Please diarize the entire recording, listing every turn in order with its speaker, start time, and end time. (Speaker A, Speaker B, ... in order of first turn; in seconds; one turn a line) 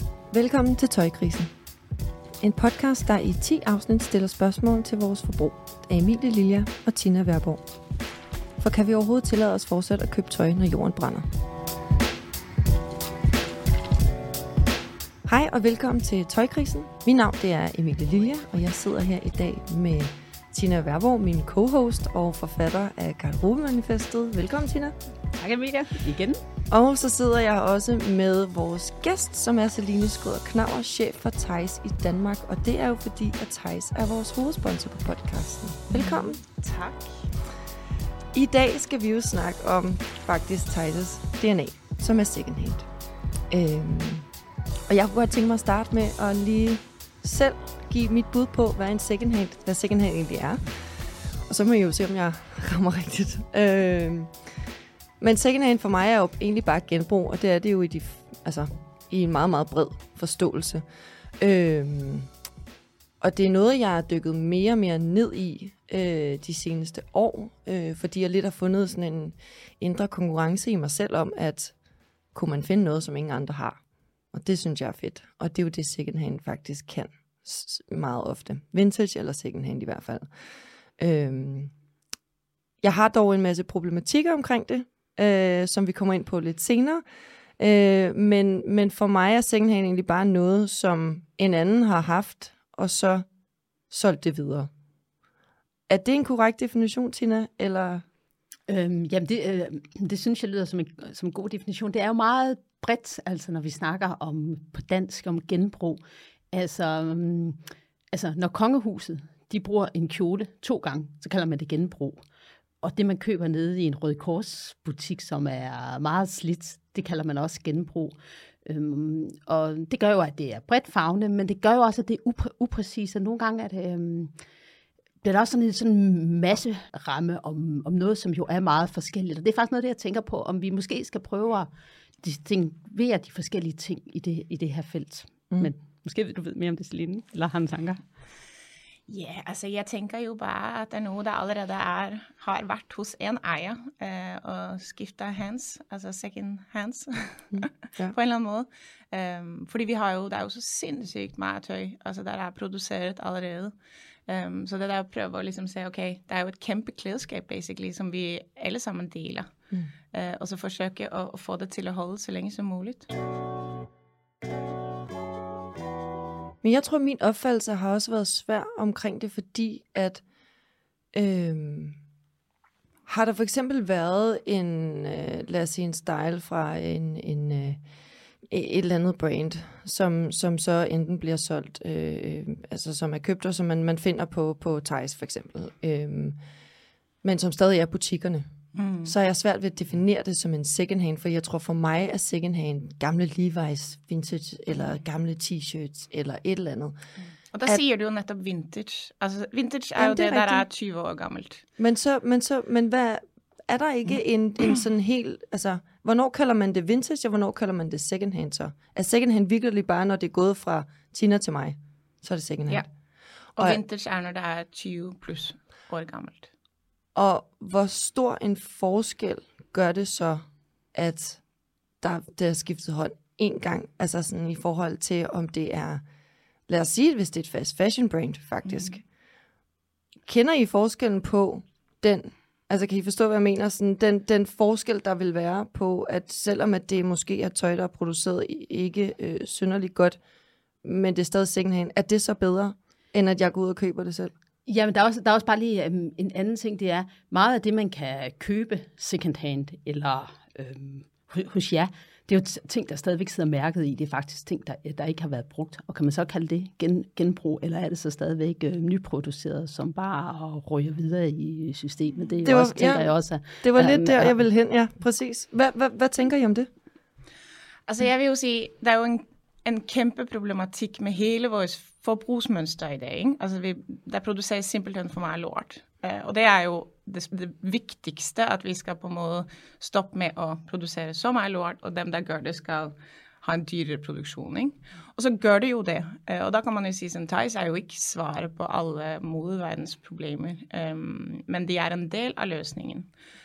Speaker A: 0.3-1.5
Speaker A: 2.4-7.6
Speaker A: 8.6-11.2
Speaker A: 15.2-24.9
Speaker B: 25.3-26.4
Speaker A: 26.7-36.4
Speaker C: 36.1-37.3
Speaker A: 38.3-42.9
Speaker A: 43.5-44.3
Speaker A: 44.9-50.9
Speaker A: 51.5-54.3
Speaker A: 55.2-60.8
Speaker A: 61.4-62.3
Speaker A: 63.2-71.7
Speaker A: 72.3-73.8
Speaker A: 74.3-80.3
Speaker A: 81.0-81.7
Speaker A: 82.8-87.0
Speaker A: 87.6-93.2
Speaker A: 93.9-94.7
Speaker A: 95.9-98.0
Speaker B: 98.7-106.0
Speaker B: 106.5-107.6
Speaker B: 108.1-112.2
Speaker B: 112.8-124.3
Speaker B: 125.2-131.7
Speaker B: 132.2-138.0
Speaker C: 139.1-153.7
Speaker A: 147.5-148.1
Speaker C: 154.3-159.5
Speaker C: 160.1-163.1
Speaker A: 166.6-170.2
Speaker A: 171.1-172.0
Speaker A: 173.1-177.8
Speaker A: 178.5-186.4
Speaker A: 187.2-188.4
Speaker C: 188.7-189.1
Speaker A: 189.0-196.9
Speaker C: 197.5-201.6
Speaker A: 200.0-200.7
Speaker A: 201.8-212.9
Speaker C: 213.6-216.5
Speaker A: 217.1-221.4
Speaker A: 222.0-226.0
Speaker A: 226.7-229.0
Speaker A: 230.2-240.2
Speaker A: 240.8-244.3
Speaker B: 244.7-264.4
Speaker A: 262.4-266.7
Speaker C: 267.9-293.1